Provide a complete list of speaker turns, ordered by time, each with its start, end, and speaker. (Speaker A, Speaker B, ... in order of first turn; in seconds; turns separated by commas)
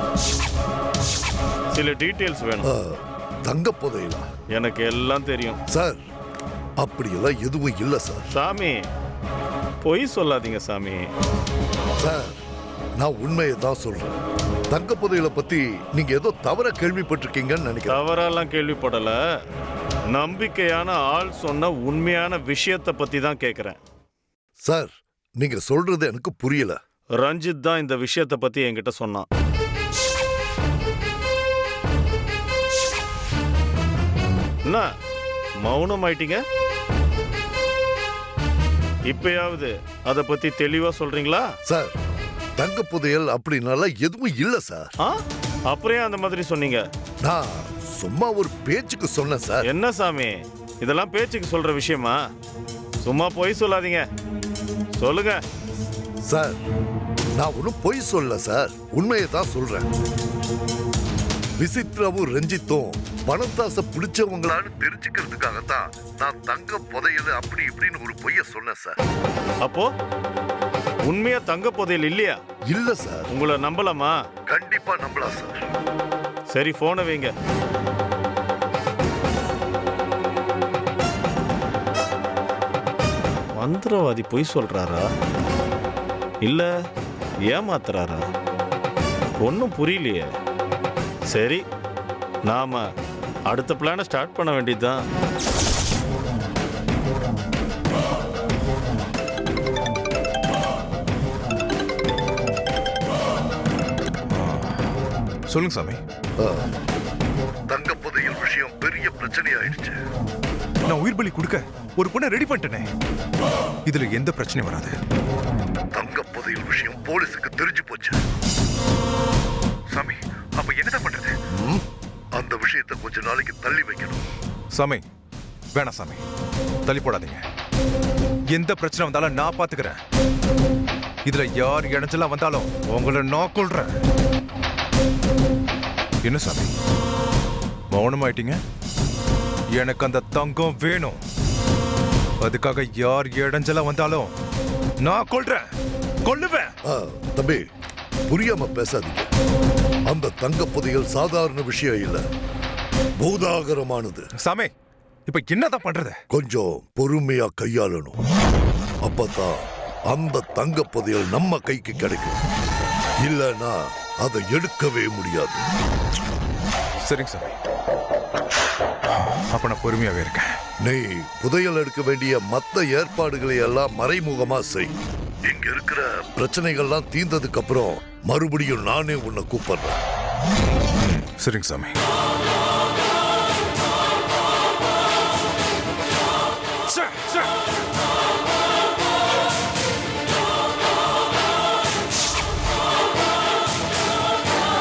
Speaker A: 1.7-2.7, Speaker B: 2.6-4.3, Speaker A: 4.5-5.6, Speaker B: 5.7-6.0, Speaker B: 6.8-8.2, Speaker A: 8.3-8.8, Speaker A: 9.8-11.1, Speaker B: 12.0-12.4, Speaker B: 13.0-14.2, Speaker B: 14.7-18.0, Speaker A: 17.9-19.2, Speaker A: 20.1-23.8, Speaker B: 24.6-26.8, Speaker A: 27.2-29.2, Speaker A: 35.6-36.4, Speaker A: 39.1-41.5, Speaker B: 41.6-41.9, Speaker B: 42.6-44.9, Speaker A: 45.0-46.9, Speaker B: 47.2-49.6, Speaker A: 49.6-52.2, Speaker A: 53.0-54.1, Speaker A: 55.0-55.4, Speaker B: 56.2-56.6, Speaker B: 57.4-59.9, Speaker B: 61.6-69.0, Speaker A: 69.6-69.9, Speaker A: 71.0-72.4, Speaker B: 72.7-73.3, Speaker A: 73.3-74.2, Speaker B: 74.5-75.6, Speaker A: 76.5-77.3, Speaker A: 83.6-85.1, Speaker A: 86.4-86.7, Speaker A: 87.5-88.2, Speaker A: 89.4-90.3, Speaker A: 91.3-91.6, Speaker A: 92.5-92.8, Speaker A: 93.5-95.0, Speaker C: 104.3-104.7, Speaker C: 105.5-106.0, Speaker B: 106.4-106.7, Speaker B: 107.7-110.0, Speaker C: 110.8-112.9, Speaker C: 113.8-114.9, Speaker B: 115.9-118.2, Speaker C: 119.9-121.3, Speaker B: 121.5-121.8, Speaker B: 122.3-124.2, Speaker C: 124.7-125.0, Speaker C: 125.7-126.2, Speaker C: 126.8-127.4, Speaker C: 128.5-130.0, Speaker C: 131.2-133.9, Speaker C: 136.2-136.7, Speaker C: 137.9-138.6, Speaker C: 139.7-141.2, Speaker C: 142.4-144.3, Speaker C: 145.0-145.7, Speaker C: 146.2-146.7, Speaker B: 146.8-147.6, Speaker B: 148.3-149.3, Speaker B: 150.1-152.2, Speaker B: 153.2-154.3, Speaker C: 154.4-154.7, Speaker C: 155.3-156.2, Speaker B: 156.3-158.2, Speaker B: 159.0-162.4, Speaker B: 163.2-165.6, Speaker C: 167.0-167.6, Speaker C: 169.5-170.5, Speaker B: 170.8-174.9, Speaker B: 175.5-180.0, Speaker C: 181.0-181.9